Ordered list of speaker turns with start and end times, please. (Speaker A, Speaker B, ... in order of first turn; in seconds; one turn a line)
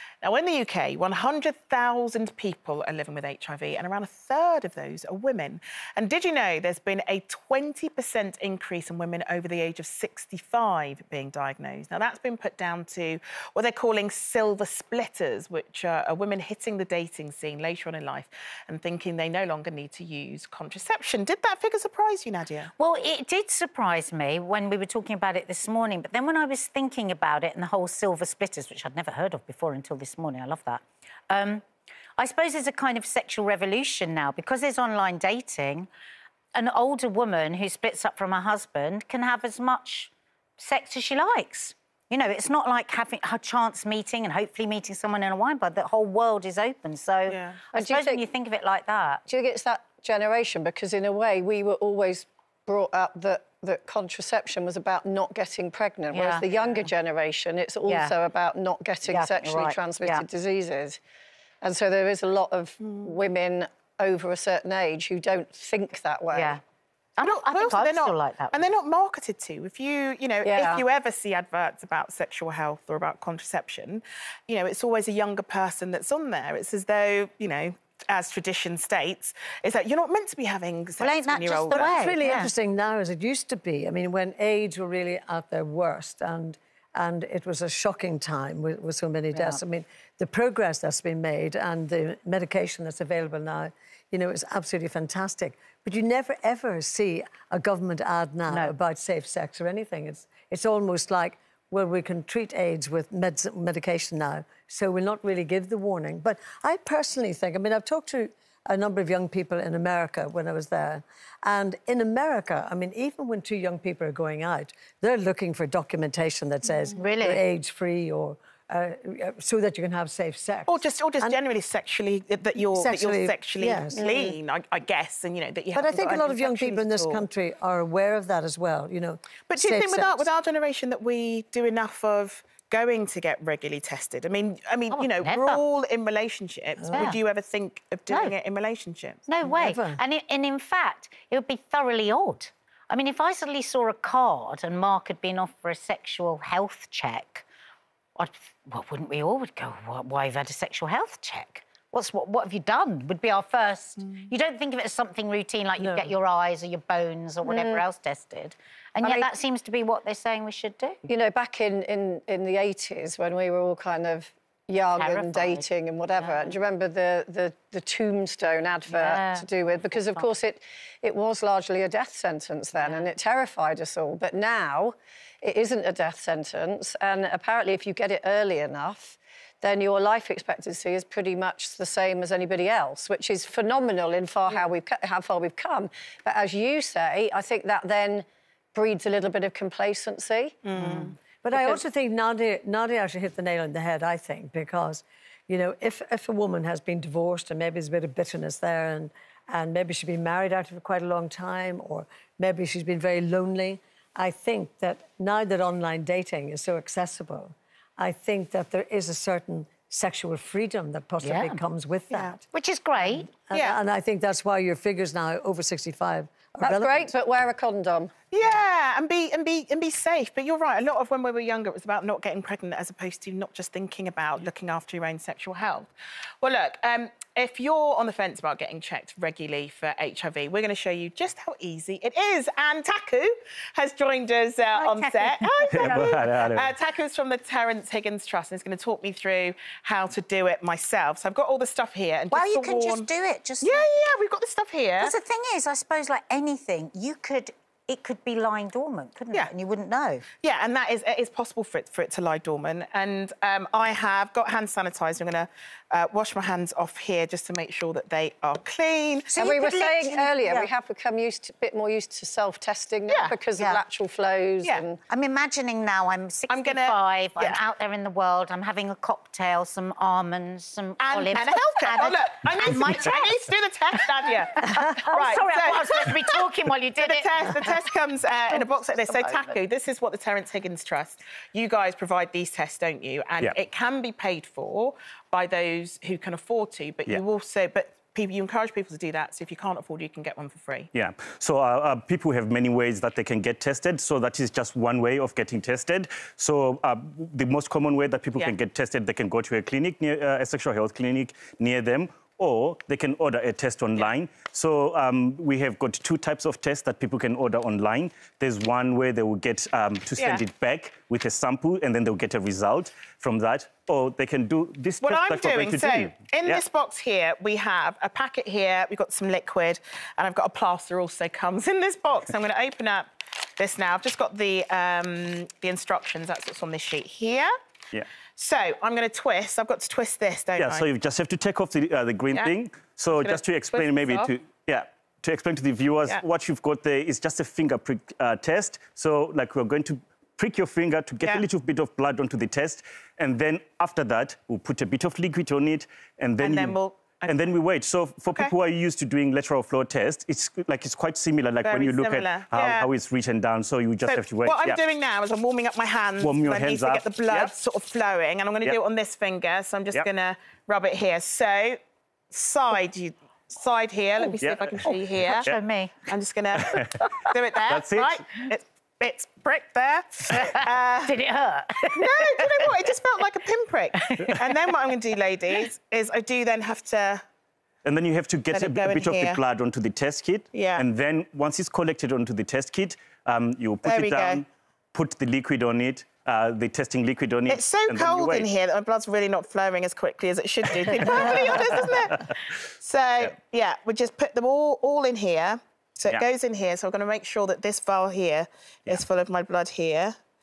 Speaker A: 0.2-22.7
Speaker B: 22.8-31.6
Speaker B: 32.2-35.9
Speaker B: 36.5-49.2
Speaker A: 47.3-47.6
Speaker C: 47.7-48.2
Speaker C: 49.2-61.0
Speaker B: 56.1-56.5
Speaker B: 57.9-58.1
Speaker B: 59.1-60.2
Speaker C: 61.6-66.6
Speaker B: 66.3-66.6
Speaker B: 67.2-68.7
Speaker A: 67.2-82.0
Speaker C: 70.4-70.8
Speaker B: 81.0-82.5
Speaker D: 81.7-121.3
Speaker B: 89.3-89.6
Speaker B: 98.5-98.7
Speaker B: 117.0-117.4
Speaker A: 120.7-127.2
Speaker D: 122.7-124.3
Speaker D: 125.7-130.2
Speaker A: 129.5-139.2
Speaker B: 134.9-135.6
Speaker D: 136.8-137.1
Speaker B: 136.9-137.2
Speaker B: 138.1-138.3
Speaker B: 139.2-147.4
Speaker D: 139.4-140.0
Speaker B: 148.2-161.0
Speaker D: 155.8-156.1
Speaker C: 157.4-157.8
Speaker C: 161.1-190.6
Speaker B: 164.9-165.6
Speaker B: 166.2-166.6
Speaker B: 168.9-170.3
Speaker B: 172.8-173.1
Speaker A: 190.7-191.1
Speaker D: 190.8-212.4
Speaker C: 191.5-191.8
Speaker B: 211.2-211.6
Speaker A: 212.1-212.4
Speaker B: 212.5-213.3
Speaker D: 213.1-217.1
Speaker A: 213.5-213.8
Speaker C: 216.6-218.1
Speaker A: 218.3-243.1
Speaker B: 234.7-236.1
Speaker E: 235.7-236.7
Speaker B: 242.3-243.8
Speaker A: 243.6-245.1
Speaker B: 245.0-250.2
Speaker A: 250.4-260.7
Speaker C: 259.4-265.0
Speaker A: 263.1-263.4
Speaker B: 263.6-263.8
Speaker B: 265.1-273.4
Speaker A: 266.5-267.6
Speaker A: 271.0-276.4
Speaker B: 274.2-277.8
Speaker A: 277.0-290.9
Speaker B: 278.5-279.5
Speaker E: 290.9-316.6
Speaker A: 310.2-310.4
Speaker A: 315.0-327.5
Speaker A: 328.4-330.9
Speaker E: 330.6-354.8
Speaker A: 333.1-334.3
Speaker A: 346.4-347.3
Speaker A: 351.6-352.9
Speaker A: 354.0-361.8
Speaker E: 356.2-357.6
Speaker A: 362.3-365.5
Speaker E: 364.4-365.6
Speaker B: 365.4-365.9
Speaker A: 366.1-371.1
Speaker E: 366.6-366.9
Speaker E: 367.7-368.2
Speaker B: 370.3-372.7
Speaker A: 371.9-377.2
Speaker B: 374.0-374.6
Speaker E: 377.8-388.5
Speaker A: 378.5-379.4
Speaker A: 380.5-380.8
Speaker A: 383.8-384.4
Speaker A: 387.5-400.1